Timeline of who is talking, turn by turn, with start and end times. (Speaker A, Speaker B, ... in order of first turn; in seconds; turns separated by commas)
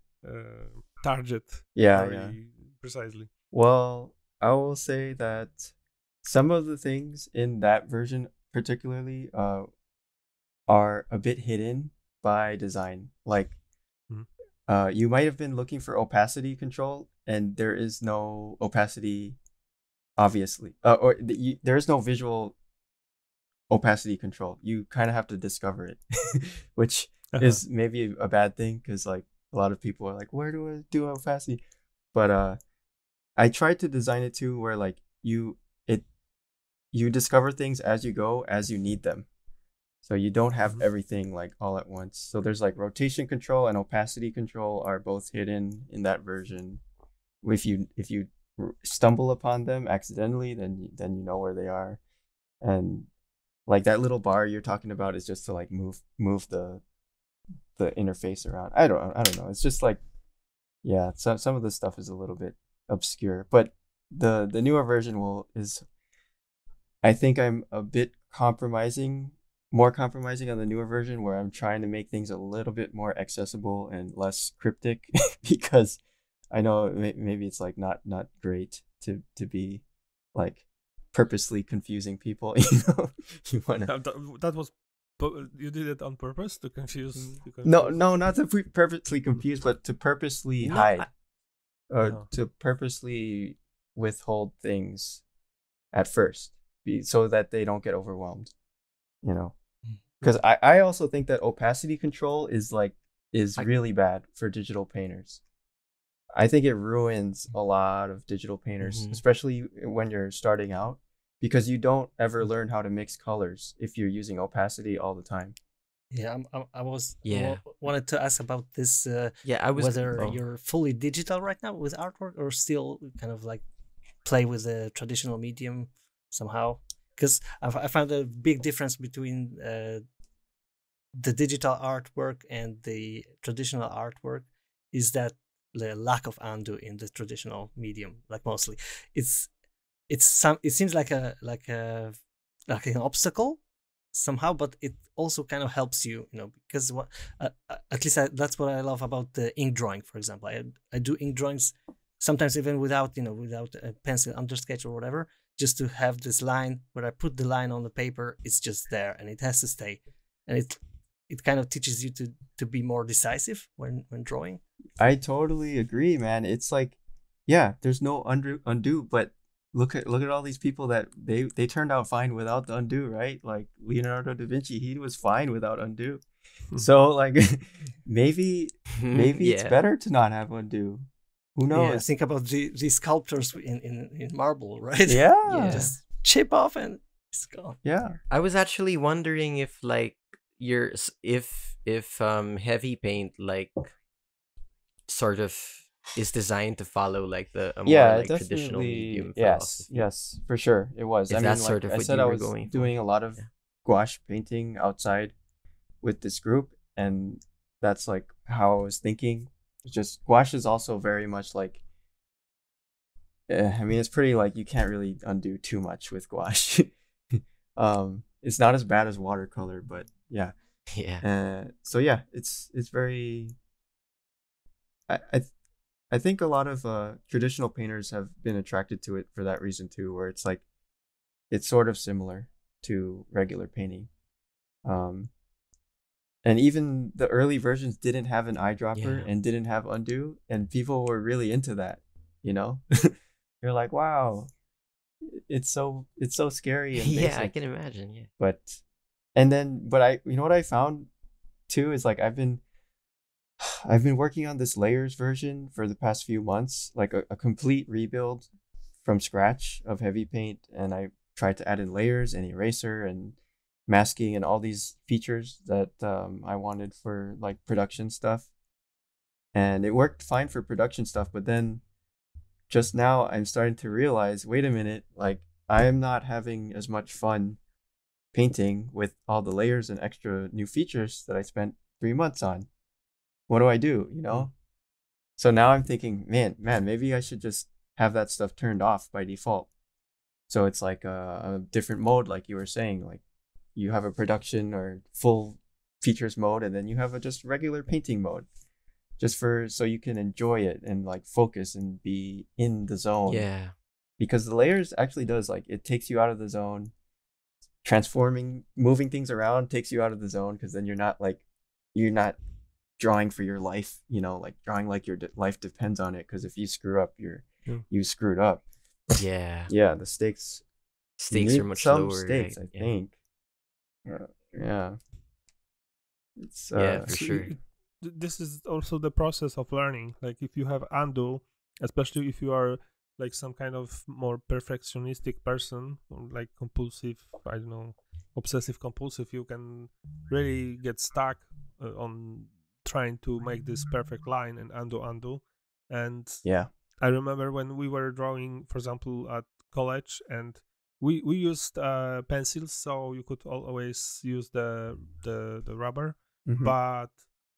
Speaker A: 0.2-3.3, Speaker B: 1.8-2.4, Speaker B: 3.5-9.7, Speaker B: 10.7-13.6, Speaker B: 14.7-19.4, Speaker B: 20.2-22.6, Speaker B: 23.7-31.6, Speaker A: 27.3-27.6, Speaker B: 32.1-32.6, Speaker B: 33.4-36.1, Speaker B: 36.9-39.3, Speaker B: 40.0-46.8, Speaker B: 47.4-52.0, Speaker B: 52.6-53.1, Speaker B: 53.7-56.8, Speaker B: 57.8-60.0, Speaker B: 60.8-65.8, Speaker B: 67.0-76.0, Speaker B: 76.5-79.8, Speaker B: 80.3-83.9, Speaker A: 83.9-88.0, Speaker C: 87.2-87.4, Speaker B: 87.6-91.1, Speaker C: 90.6-91.1, Speaker B: 91.9-95.2, Speaker B: 95.9-98.5, Speaker B: 99.2-99.5, Speaker B: 100.2-105.4, Speaker B: 106.3-115.5, Speaker C: 108.8-109.2, Speaker D: 116.1-123.6, Speaker C: 117.2-117.6, Speaker C: 119.4-120.4, Speaker D: 124.2-130.1, Speaker D: 131.2-139.5, Speaker D: 140.1-143.6, Speaker D: 144.1-164.6, Speaker B: 165.0-167.0, Speaker B: 167.5-176.2, Speaker B: 176.8-182.1, Speaker C: 179.0-179.8, Speaker D: 181.7-187.8, Speaker B: 185.1-185.9, Speaker C: 185.5-185.9, Speaker B: 187.8-188.2, Speaker C: 188.3-193.9, Speaker C: 195.1-200.1, Speaker B: 197.8-205.3, Speaker C: 201.3-203.5, Speaker B: 206.0-211.8, Speaker B: 213.5-220.6, Speaker C: 220.9-221.2, Speaker B: 221.2-223.6, Speaker B: 225.1-225.5, Speaker B: 226.1-230.6, Speaker B: 231.5-234.1, Speaker B: 234.8-235.3, Speaker B: 236.4-244.5, Speaker C: 239.0-239.3, Speaker B: 245.2-247.5, Speaker C: 246.9-248.3, Speaker B: 248.4-248.8, Speaker B: 249.3-251.1, Speaker B: 251.7-252.6, Speaker B: 253.7-258.5, Speaker B: 259.0-268.5, Speaker B: 269.5-271.8, Speaker B: 272.7-277.6, Speaker B: 278.3-282.7, Speaker B: 283.5-284.5, Speaker B: 285.4-289.7, Speaker B: 290.5-293.2, Speaker B: 293.8-298.5, Speaker B: 299.2-303.5, Speaker C: 303.3-303.7, Speaker B: 304.2-306.9, Speaker B: 307.8-311.4, Speaker B: 311.9-312.4, Speaker B: 313.0-318.6, Speaker C: 319.2-319.7, Speaker B: 319.7-320.6, Speaker C: 321.2-322.9, Speaker B: 321.3-323.1, Speaker B: 324.1-325.0, Speaker B: 326.4-327.5, Speaker C: 326.8-327.5, Speaker A: 327.1-357.2, Speaker B: 346.4-346.7, Speaker B: 356.4-356.8